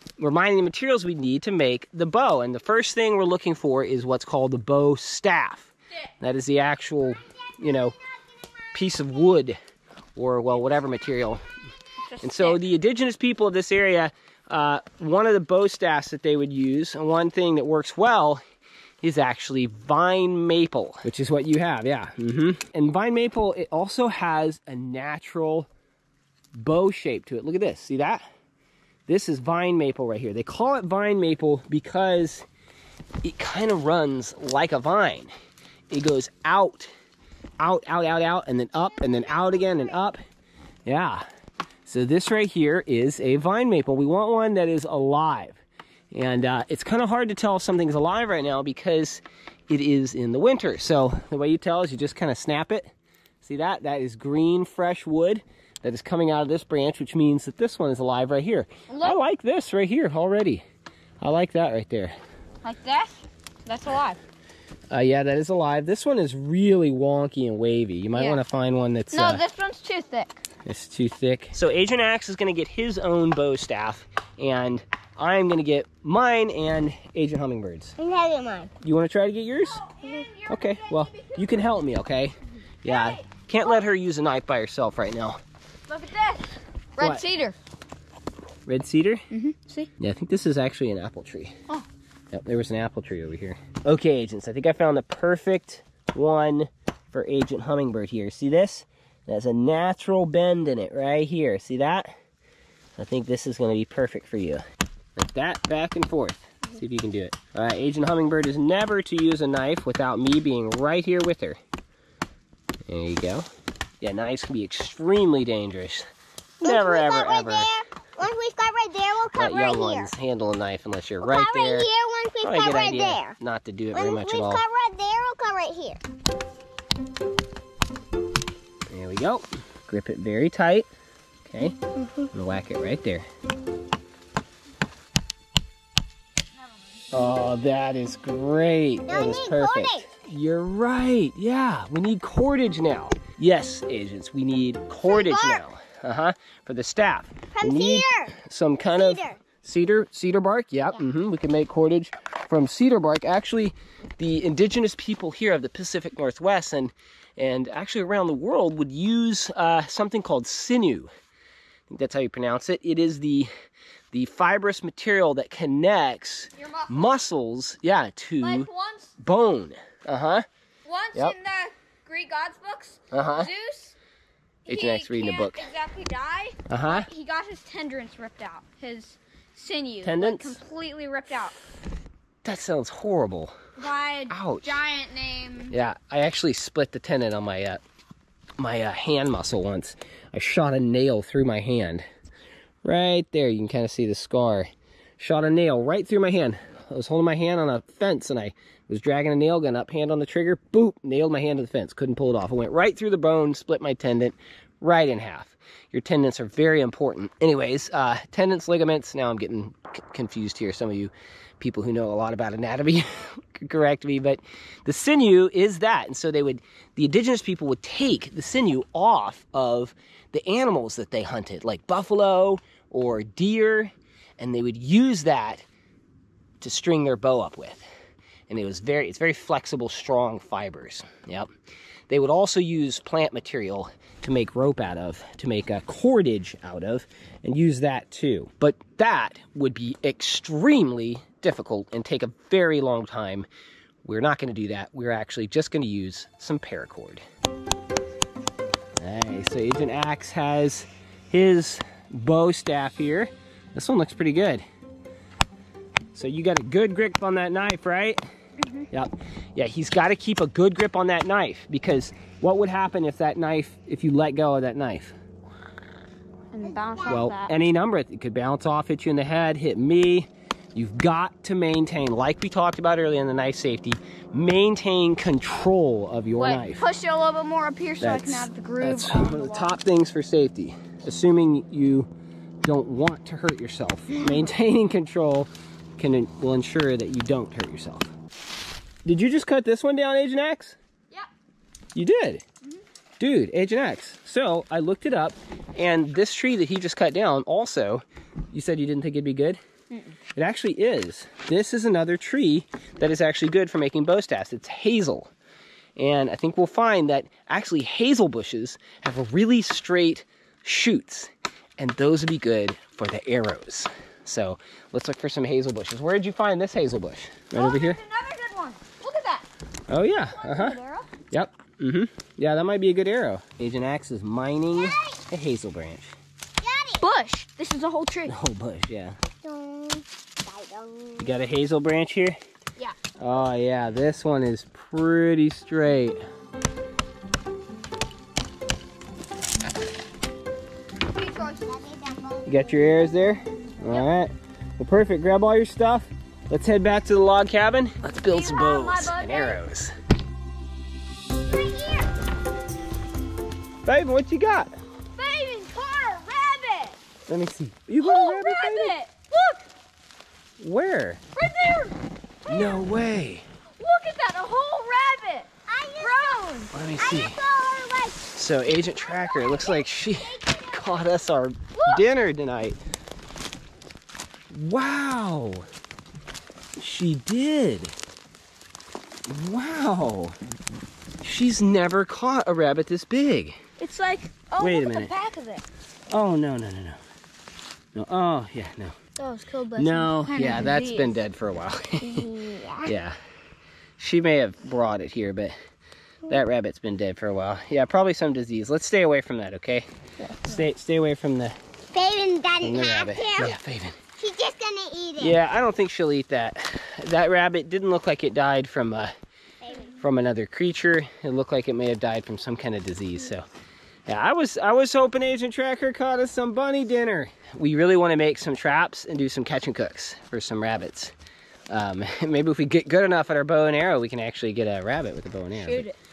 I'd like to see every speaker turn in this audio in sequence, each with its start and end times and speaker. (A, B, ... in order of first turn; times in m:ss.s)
0:00.2-0:08.0 A
0:08.7-0:09.6 A
0:10.2-0:11.4 A
0:12.1-0:12.6 B
0:12.2-0:18.4 A
0:19.0-0:25.7 A
0:26.6-0:28.3 A
0:29.1-0:32.5 A
0:33.2-0:35.3 A
0:35.9-0:36.9 A
0:37.6-0:40.2 A
0:38.9-0:40.1 C
0:40.8-0:41.3 A
0:41.8-0:45.6 A
0:46.1-0:52.9 A
0:53.4-1:00.6 A
0:58.9-0:59.2 B
1:01.2-1:02.1 A
1:02.6-1:04.2 B
1:04.9-1:09.4 A
1:08.2-1:08.4 B
1:09.1-1:10.4 B
1:10.6-1:18.0 A
1:18.0-1:18.7 C
1:18.8-1:19.9 A
1:19.6-1:21.7 B
1:20.5-1:25.4 A
1:22.8-1:23.3 B
1:25.9-1:27.6 B
1:28.7-1:29.3 A
1:29.3-1:29.9 B
1:30.0-1:31.6 A
1:32.3-1:42.2 A
1:43.0-1:44.6 A
1:45.2-1:51.6 A
1:52.9-1:53.5 A
1:54.0-1:56.1 A
1:56.6-1:57.7 A
1:56.6-2:00.1 C
1:59.4-2:01.9 A
2:01.2-2:03.4 C
2:02.4-2:04.6 A
2:03.9-2:06.0 C
2:08.9-2:10.9 A
2:11.5-2:11.8 A
2:12.3-2:13.3 A
2:17.1-2:41.1 A
2:19.1-2:20.1 C
2:25.1-2:25.6 C
2:27.5-2:29.4 C
2:41.9-2:43.5 A
2:44.1-2:48.7 A
2:46.6-2:47.1 B
2:48.4-2:49.2 B
2:49.2-2:50.5 A
2:50.9-2:54.0 B
2:53.1-2:53.5 A
2:54.6-3:01.6 B
2:54.7-2:55.7 A
2:56.7-2:57.1 A
3:00.0-3:00.6 A
3:02.4-3:03.6 A
3:03.8-3:05.8 B
3:04.3-3:04.8 A
3:05.7-3:07.8 A
3:08.6-3:12.1 A
3:12.8-3:45.6 A
3:46.6-3:47.9 A
3:48.5-3:51.5 A
3:52.1-4:03.5 A
4:04.0-4:07.2 A
4:09.0-4:14.6 A
4:16.1-4:18.2 A
4:18.9-4:25.2 A
4:26.5-4:27.5 B
4:26.6-4:27.2 C
4:27.1-4:36.8 A
4:36.4-4:39.8 B
4:38.0-4:42.1 A
4:42.6-4:48.1 A
4:49.0-4:50.8 A
4:52.0-4:52.4 A
4:53.2-4:59.6 A
4:59.9-5:00.2 B
5:00.4-5:05.3 A
5:06.0-5:18.0 A
5:17.5-5:19.5 B
5:19.9-5:20.8 A
5:20.3-5:21.1 B
5:21.3-5:26.2 A
5:24.8-5:25.2 C
5:26.6-5:27.0 C
5:27.0-5:28.3 B
5:28.3-5:29.2 A
5:29.4-5:31.4 C
5:31.2-5:32.4 A
5:33.2-5:36.2 A
5:41.1-5:41.6 B
5:41.6-5:42.8 C
5:42.5-5:49.9 A
5:48.2-5:49.6 B
5:51.5-5:52.1 C
5:53.8-5:54.8 A
5:55.2-5:57.0 B
5:57.3-5:58.9 A
5:58.0-5:59.6 B
6:00.6-6:01.2 A
6:01.4-6:01.9 B
6:02.5-6:03.4 A
6:02.5-6:02.8 B
6:03.8-6:05.5 B
6:05.7-6:08.3 C
6:06.0-6:06.7 B
6:06.7-6:07.4 A
6:08.4-6:12.8 A
6:08.9-6:11.1 C
6:11.8-6:12.0 B
6:14.5-6:15.7 A
6:16.8-6:17.9 A
6:19.3-6:20.4 A
6:21.2-6:23.6 A
6:23.8-6:25.6 B
6:24.6-6:25.1 A
6:26.1-6:27.0 A
6:28.0-6:29.0 A
6:29.2-6:31.2 B
6:29.8-6:32.3 A
6:32.0-6:32.9 C
6:32.8-6:33.2 A
6:34.0-6:35.6 A
6:36.3-6:39.9 A
6:40.4-6:41.6 A
6:41.9-6:43.6 C
6:42.6-6:44.0 A
6:44.2-6:45.4 C
6:45.2-6:49.1 A
6:49.6-6:49.9 C
6:50.0-6:53.5 A
6:54.1-7:01.1 A
7:01.7-7:05.9 A
7:05.6-7:06.0 B